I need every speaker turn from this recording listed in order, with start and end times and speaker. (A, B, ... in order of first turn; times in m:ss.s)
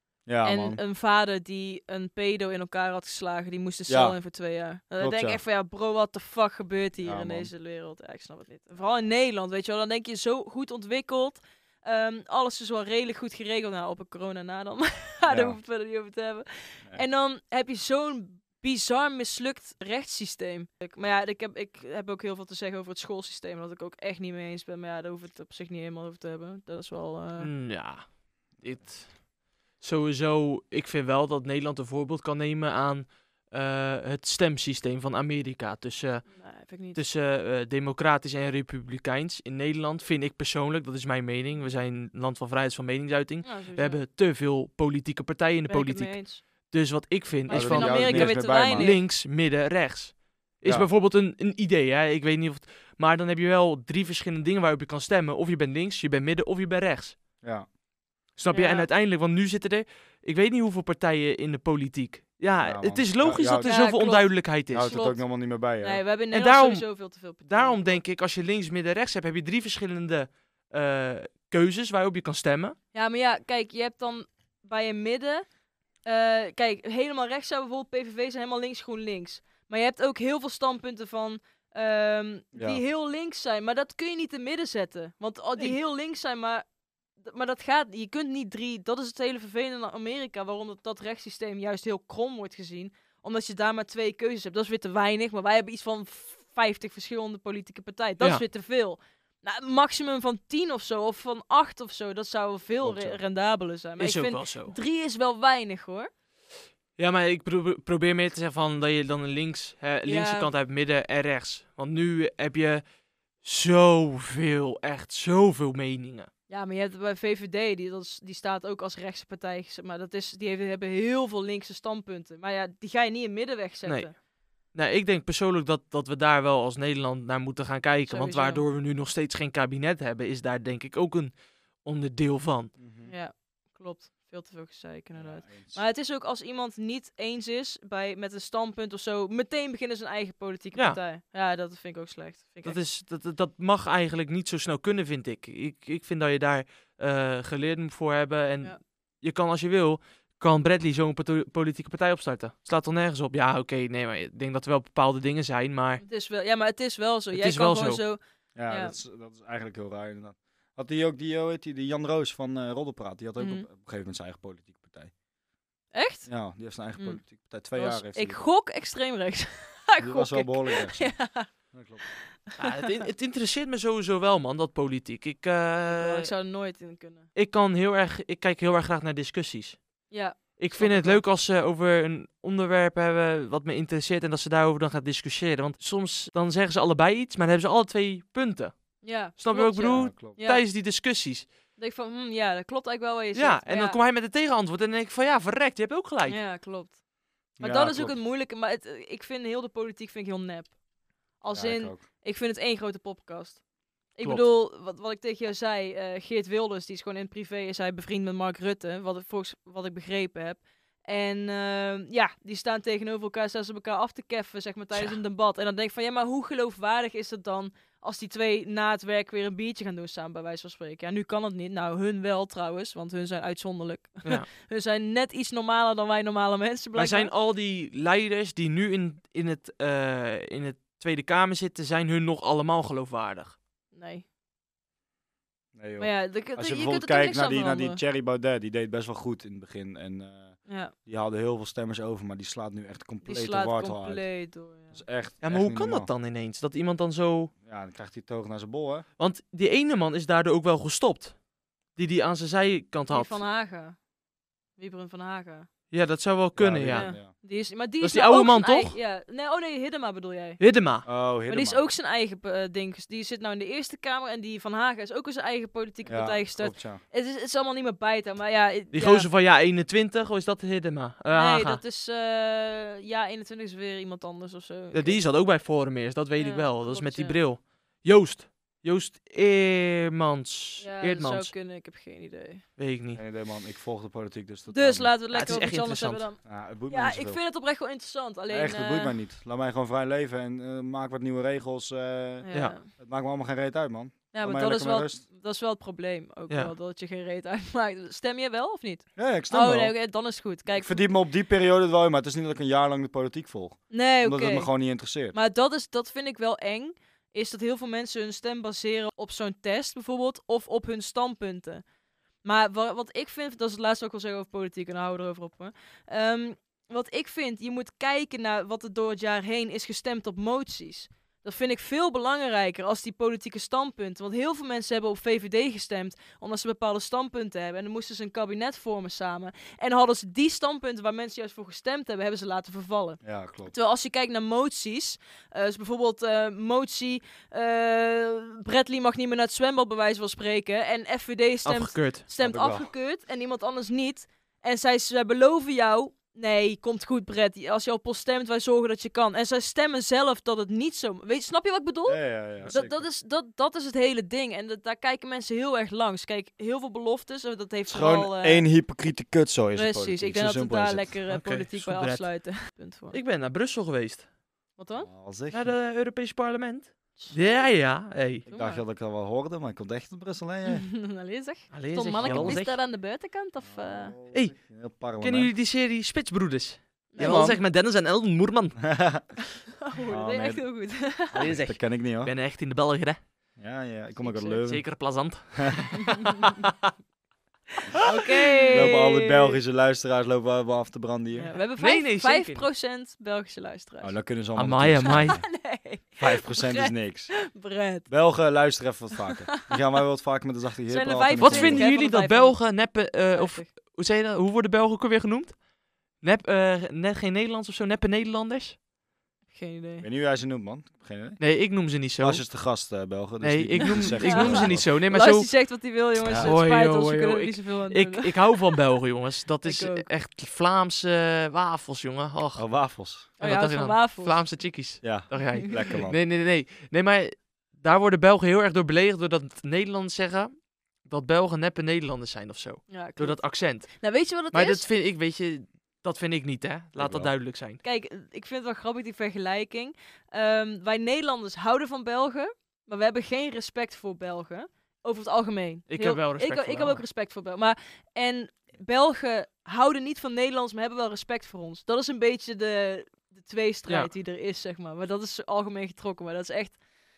0:00.3-0:00.8 A
0:00.4-0:27.5 B
0:03.9-0:04.2 A
0:05.0-0:05.4 A
0:07.0-0:07.5 A
0:15.2-0:15.6 A
0:27.4-0:57.2 C
0:36.3-0:37.0 B
0:43.4-0:44.0 B
0:45.7-0:46.4 B
0:47.5-0:49.1 B
0:47.5-0:49.0 A
0:57.4-0:57.7 A
0:58.4-1:05.0 C
0:58.5-0:58.9 B
1:02.6-1:03.8 A
1:03.6-1:08.0 B
1:04.7-1:06.0 A
1:06.3-1:12.8 C
1:12.9-1:15.5 B
1:16.0-1:26.6 B
1:22.5-1:22.8 A
1:27.2-1:46.1 B
1:42.8-1:43.2 A
1:44.0-1:44.8 C
1:47.0-1:52.8 C
1:50.1-1:50.5 B
1:53.4-1:56.3 C
1:56.5-2:04.2 B
2:03.9-2:12.7 C
2:08.1-2:08.6 B
2:12.8-2:13.2 A
2:13.0-2:22.8 B
2:15.1-2:15.8 A
2:20.8-2:21.0 C
2:22.6-2:36.0 C
2:36.0-2:39.0 B
2:37.3-2:38.0 C
2:38.6-2:45.1 A
2:43.4-2:43.6 B
2:45.9-2:46.3 B
2:46.3-2:48.4 A
2:47.0-2:47.2 B
2:47.7-2:51.5 B
2:50.0-2:52.1 A
2:52.6-2:56.3 C
2:52.6-2:52.8 B
2:55.9-2:57.3 B
2:57.4-3:11.5 C
3:00.1-3:01.2 B
3:09.0-3:10.7 B
3:09.9-3:10.4 A
3:11.8-3:14.0 B
3:13.3-3:16.4 C
3:16.3-3:17.0 B
3:17.6-3:20.8 B
3:17.6-3:18.2 A
3:21.4-3:47.3 B
3:21.5-3:22.1 A
3:24.2-3:24.5 C
3:46.9-3:53.6 C
3:53.9-3:54.2 B
3:55.8-4:04.3 A
3:56.0-3:58.0 B
4:00.7-4:00.9 B
4:03.2-4:05.0 B
4:04.9-4:06.1 A
4:05.4-4:07.5 C
4:07.6-4:09.0 A
4:09.2-4:11.4 C
4:12.0-4:13.4 C
4:13.1-4:14.0 B
4:14.8-4:15.7 B
4:15.9-4:17.1 C
4:16.6-4:17.3 A
4:16.9-4:20.6 B
4:18.0-4:19.0 C
4:20.6-4:21.1 C
4:21.0-4:21.9 A
4:21.5-4:29.3 B
4:26.1-4:27.0 A
4:28.9-4:31.8 C
4:31.3-4:35.3 B
4:34.9-4:41.5 C
4:36.4-4:37.4 B
4:40.8-4:42.6 B
4:42.8-4:43.2 C
4:43.2-4:45.6 A
4:44.7-4:49.2 B
4:45.3-4:46.3 C
4:46.4-4:47.4 A
4:48.5-4:55.2 A
4:52.4-4:52.9 B
4:54.3-5:01.1 B
4:59.2-5:00.0 A
5:00.7-5:05.4 A
5:03.9-5:04.7 B
5:05.3-5:11.8 B
5:12.4-5:58.7 B
5:33.2-5:33.7 A
5:41.6-5:42.2 C
5:42.4-5:42.9 A
5:52.1-5:53.0 A
5:57.9-6:01.2 A
5:59.8-6:03.2 B
6:01.3-6:04.3 C
6:04.8-6:05.1 B
6:04.9-6:05.8 A
6:05.5-6:08.4 C
6:07.2-6:07.7 B
6:08.5-6:08.8 B
6:08.5-6:10.9 A
6:10.6-6:14.1 B
6:11.7-6:12.8 C
6:12.2-6:12.6 A
6:13.6-6:15.5 A
6:15.2-6:19.1 C
6:17.1-6:17.6 B
6:17.2-6:17.6 A
6:18.8-6:19.4 A
6:19.8-6:21.5 B
6:20.1-6:22.3 A
6:21.3-6:23.2 C
6:23.6-6:25.7 A
6:24.2-6:24.6 B
6:24.6-6:26.7 C
6:27.9-6:29.6 B
6:28.0-6:28.9 C
6:28.7-6:31.5 A
6:31.4-6:34.2 B
6:31.8-6:32.7 C
6:34.0-6:35.5 A
6:34.6-6:35.4 C
6:35.0-6:38.1 B
6:36.2-6:37.5 A
6:38.1-6:41.9 A
6:40.9-6:42.6 B
6:41.4-6:45.6 C
6:43.3-6:43.7 B
6:46.2-6:48.8 C
6:49.5-6:50.0 B
6:50.0-6:54.9 A
6:51.4-6:52.5 C
6:53.4-6:55.6 C
6:54.0-6:58.8 B
6:56.2-6:56.5 A
6:56.3-7:02.7 C
6:59.6-7:00.1 B
7:02.6-7:03.3 A
7:03.4-7:04.5 B
7:03.4-7:17.8 C
7:05.0-7:06.2 A
7:12.9-7:14.9 B
7:17.0-7:17.3 A
7:17.8-7:36.8 B
7:25.9-7:27.0 C